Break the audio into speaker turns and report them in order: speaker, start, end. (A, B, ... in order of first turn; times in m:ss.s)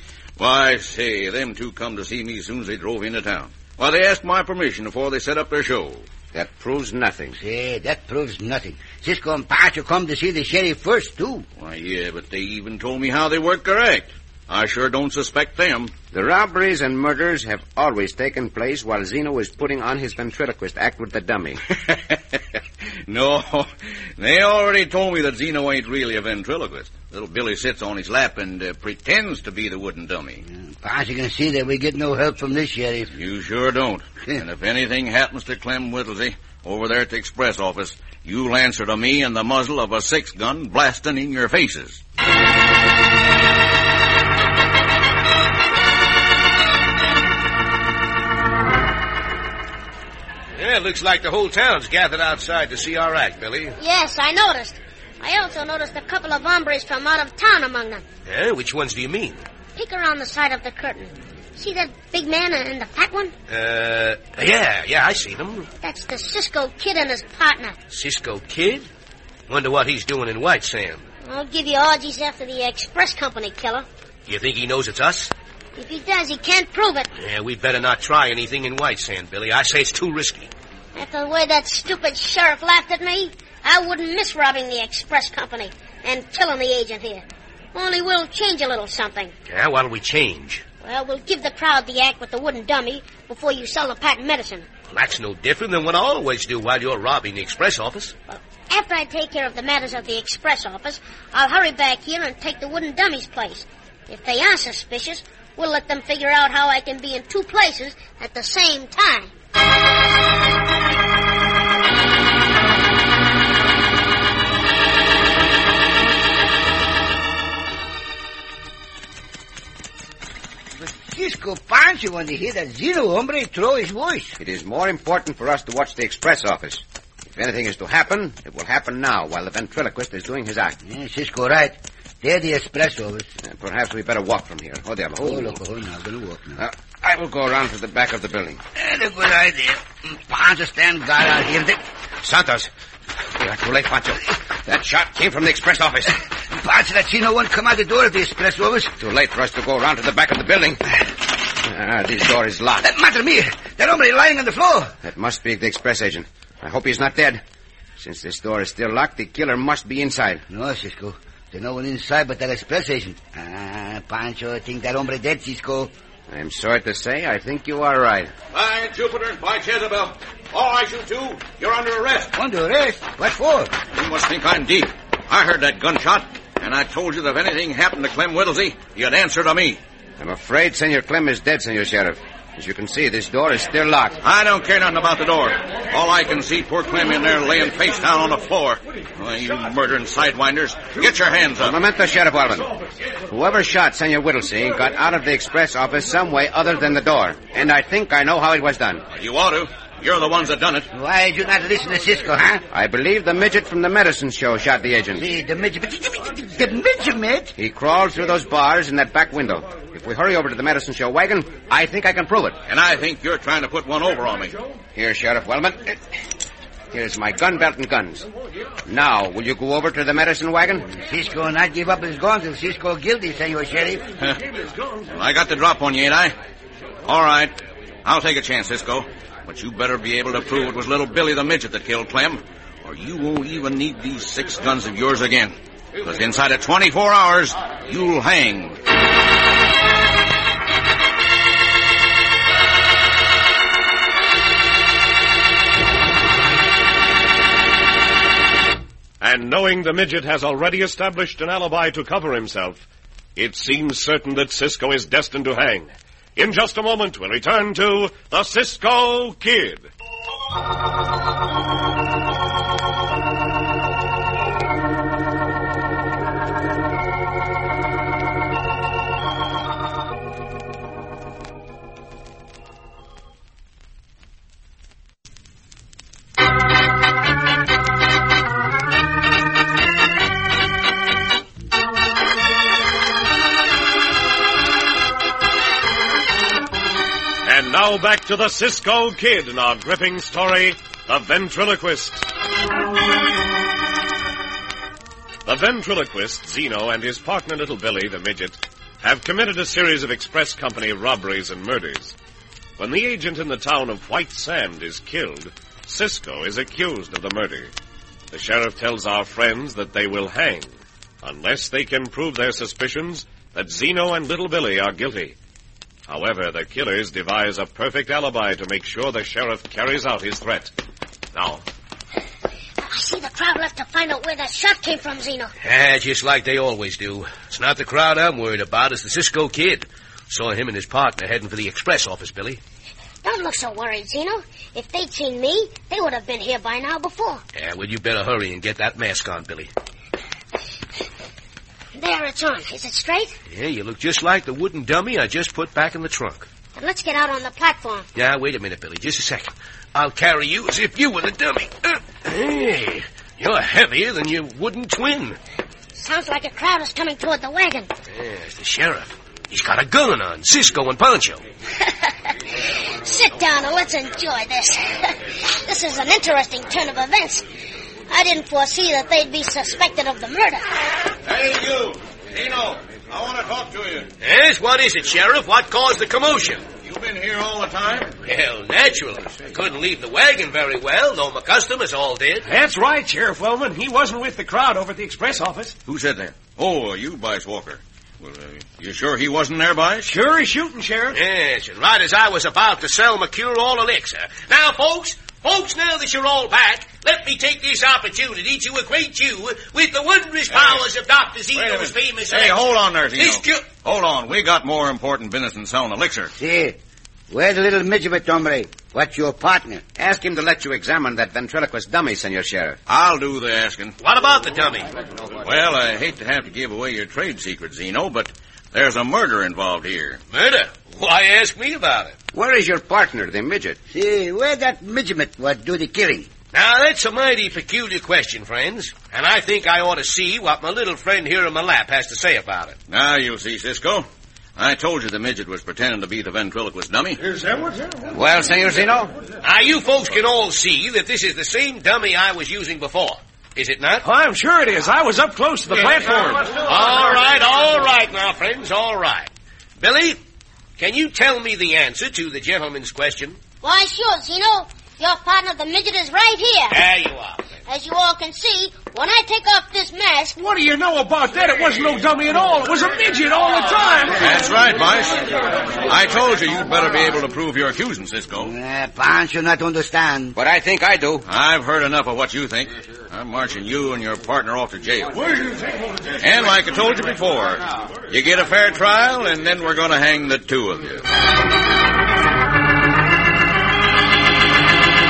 0:00.4-0:06.0 A
0:06.3-0:07.4 B
0:07.4-0:11.5 C
0:11.6-0:15.9 A
0:16.1-0:21.6 B
0:21.7-0:22.4 A
0:23.1-0:30.4 A
0:30.5-0:33.1 C
0:33.1-0:42.0 A
0:50.6-0:53.8 D
0:53.8-0:58.0 E
0:58.3-0:59.4 D
0:59.8-1:03.3 E
1:03.5-1:05.7 D
1:05.8-1:07.8 E
1:07.9-1:08.9 D
1:09.5-1:11.0 D
1:11.2-1:13.9 E
1:14.3-1:15.3 D
1:15.8-1:17.1 E
1:17.2-1:20.5 D
1:21.0-1:29.3 E
1:29.5-1:30.6 D
1:30.8-1:34.7 E
1:34.9-1:38.2 D
1:38.3-1:49.3 E
2:00.8-2:04.4 C
2:04.4-2:10.8 B
2:10.8-2:13.3 C
2:13.4-2:15.6 B
2:15.2-2:16.6 C
2:16.6-2:18.6 B
2:18.8-2:21.8 C
2:22.2-2:22.7 B
2:23.4-2:26.2 B
2:26.5-2:28.9 C
2:29.0-2:30.8 B
2:31.6-2:32.9 B
2:32.8-2:35.0 C
2:35.0-2:37.4 B
2:38.0-2:40.4 B
2:40.5-2:45.9 C
2:46.3-2:48.3 B
2:48.5-2:52.3 A
2:52.4-2:53.7 C
2:53.9-2:59.8 A
3:00.2-3:04.2 B
3:04.2-3:11.8 A
3:11.6-3:12.7 B
3:13.3-3:19.1 B
3:19.2-3:20.9 A
3:20.9-3:22.6 C
3:22.7-3:25.2 B
3:25.2-3:27.5 C
3:27.6-3:32.6 B
3:32.7-3:34.6 A
3:35.0-3:36.0 B
3:36.9-3:38.3 B
3:38.8-3:40.9 B
3:40.9-3:44.0 C
3:44.2-3:46.3 A
3:47.0-3:58.8 A
4:09.2-4:12.8 F
4:13.4-4:19.9 F
4:47.4-4:52.3 F
4:55.5-5:02.2 F
5:02.8-5:07.7 F
5:08.3-5:15.4 F
5:16.1-5:20.7 F
5:21.3-5:21.6 F
5:22.8-5:25.5 E
5:25.6-5:32.6 D
5:33.2-5:37.4 E
5:37.6-5:39.7 D
5:41.9-5:43.4 E
5:43.5-5:46.5 D
5:46.8-5:48.1 E
5:48.2-5:55.4 D
5:55.9-5:57.9 E
5:58.1-6:01.4 D
6:01.8-6:07.5 E
6:08.1-6:10.6 E
6:11.2-6:14.1 A
6:14.2-6:16.7 D
6:16.8-6:18.1 A
6:18.2-6:22.5 D
6:22.4-6:25.8 G
6:25.9-6:30.1 A
6:30.0-6:31.2 G
6:31.1-6:42.6 D
6:40.5-6:40.8 A
6:41.6-6:46.3 A
6:43.2-6:43.7 D
6:46.4-6:46.8 C
6:47.3-6:49.8 C
6:50.0-6:52.8 B
6:52.9-6:54.0 A
6:54.0-6:54.9 D
6:55.4-7:00.2 A
7:00.3-7:02.2 D
7:02.3-7:03.8 B
7:03.9-7:06.3 C
7:06.5-7:12.8 D
7:12.9-7:17.2 A
7:17.5-7:17.9 G
7:18.1-7:19.2 B
7:19.4-7:24.1 D
7:24.0-7:27.0 G
7:26.5-7:30.2 D
7:30.8-7:33.4 D
7:33.6-7:36.8 E
7:36.7-7:37.5 D
7:37.7-7:40.4 E
7:40.4-7:44.3 G
7:44.2-7:48.5 A
7:48.4-7:50.4 C
7:50.4-7:51.3 B
7:51.3-7:55.3 A
7:56.2-8:01.0 A